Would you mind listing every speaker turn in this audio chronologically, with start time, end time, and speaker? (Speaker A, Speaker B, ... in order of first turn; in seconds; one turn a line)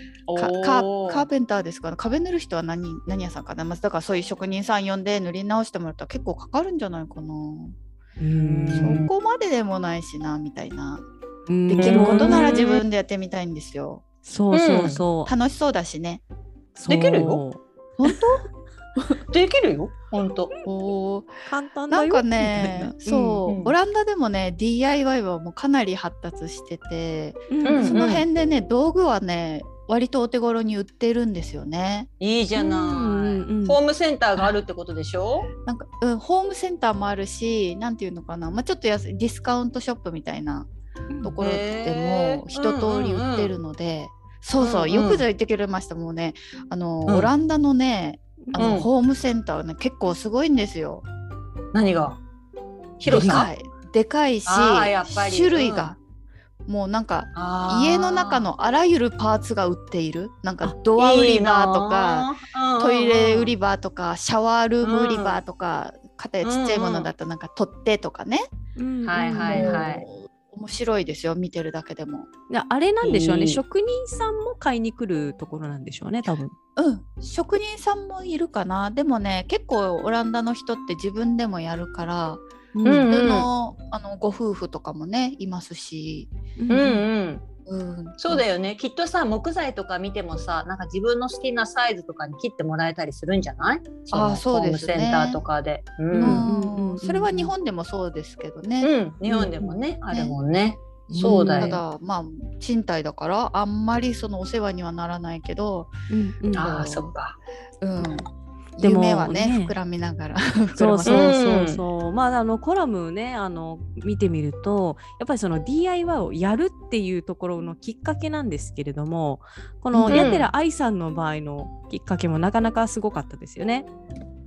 Speaker A: 0.3-1.2
Speaker B: 0.3-7.7
Speaker C: 8.2-9.0
Speaker A: 8.3-9.1
Speaker B: 8.7-11.0
Speaker C: 11.5-12.8
Speaker B: 11.7-14.0
Speaker A: 11.8-12.8
Speaker C: 14.2-15.3
Speaker A: 14.5-15.0
Speaker B: 15.2-16.2
Speaker C: 16.8-18.2
Speaker A: 16.9-17.4
Speaker B: 18.0-18.4
Speaker A: 19.3-20.5
Speaker B: 20.6-32.1
Speaker C: 21.5-22.9
Speaker A: 23.1-23.7
Speaker C: 27.5-28.1
Speaker A: 27.6-28.2
Speaker A: 32.2-35.5
Speaker C: 32.5-33.8
Speaker B: 35.6-40.7
Speaker C: 41.1-41.4
Speaker B: 41.2-51.0
Speaker A: 41.4-43.5
Speaker A: 44.6-45.2
Speaker A: 47.0-47.3
Speaker A: 48.6-48.9
Speaker A: 51.7-52.2
Speaker A: 53.0-53.5
Speaker B: 53.0-56.0
Speaker C: 53.1-53.5
Speaker A: 54.5-55.9
Speaker B: 56.6-68.5
Speaker A: 57.3-58.5
Speaker A: 61.0-63.5
Speaker A: 64.8-65.4
Speaker A: 66.4-67.1
Speaker C: 68.8-69.8
Speaker A: 69.0-70.0
Speaker B: 69.4-72.3
Speaker C: 72.5-76.5
Speaker A: 73.0-73.6
Speaker B: 76.8-82.4
Speaker C: 82.7-83.1
Speaker A: 82.8-83.5
Speaker B: 83.1-86.3
Speaker C: 86.6-87.0
Speaker A: 86.7-87.4
Speaker B: 87.7-88.4
Speaker A: 88.2-96.5
Speaker B: 94.1-95.4
Speaker B: 96.1-98.9
Speaker C: 96.2-97.5
Speaker A: 98.8-101.8
Speaker C: 99.3-99.7
Speaker B: 100.1-100.4
Speaker C: 101.1-101.8
Speaker B: 101.1-105.9
Speaker C: 106.1-106.7
Speaker B: 106.5-107.1
Speaker A: 106.5-107.4
Speaker B: 107.8-111.4
Speaker C: 108.8-109.7
Speaker C: 110.7-123.9
Speaker A: 111.0-111.8
Speaker B: 119.9-120.4
Speaker A: 120.1-120.5